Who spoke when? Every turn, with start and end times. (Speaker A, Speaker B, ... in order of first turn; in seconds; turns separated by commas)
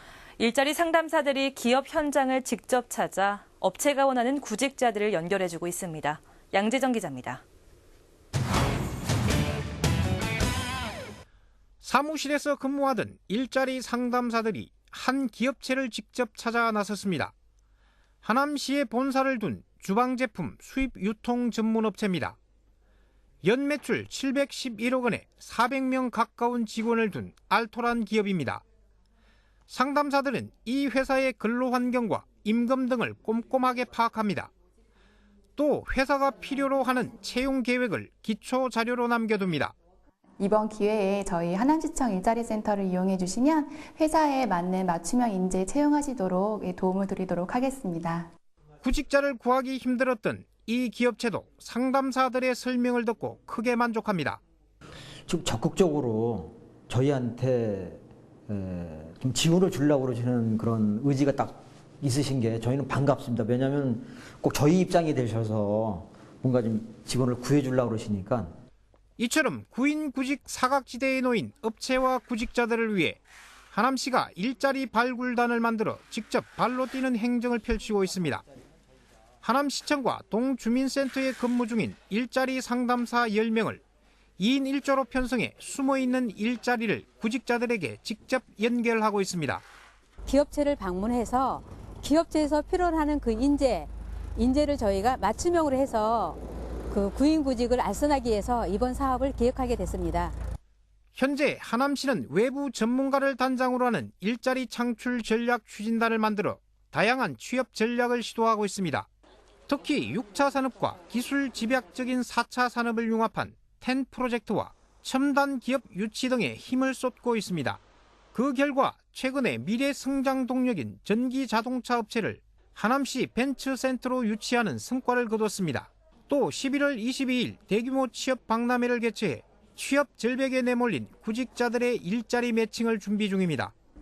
Speaker A: 0.4-7.4, Speaker B: 11.8-17.3, Speaker B: 18.2-22.4, Speaker B: 23.4-28.6, Speaker B: 29.7-34.5, Speaker B: 35.6-39.7, Speaker C: 40.4-48.3, Speaker B: 48.8-54.4, Speaker D: 55.3-68.5, Speaker B: 69.2-78.4, Speaker B: 79.4-83.8, Speaker B: 84.4-89.6, Speaker E: 90.2-100.3, Speaker B: 101.1-109.1, Speaker B: 109.7-117.8, Speaker B: 118.3-133.7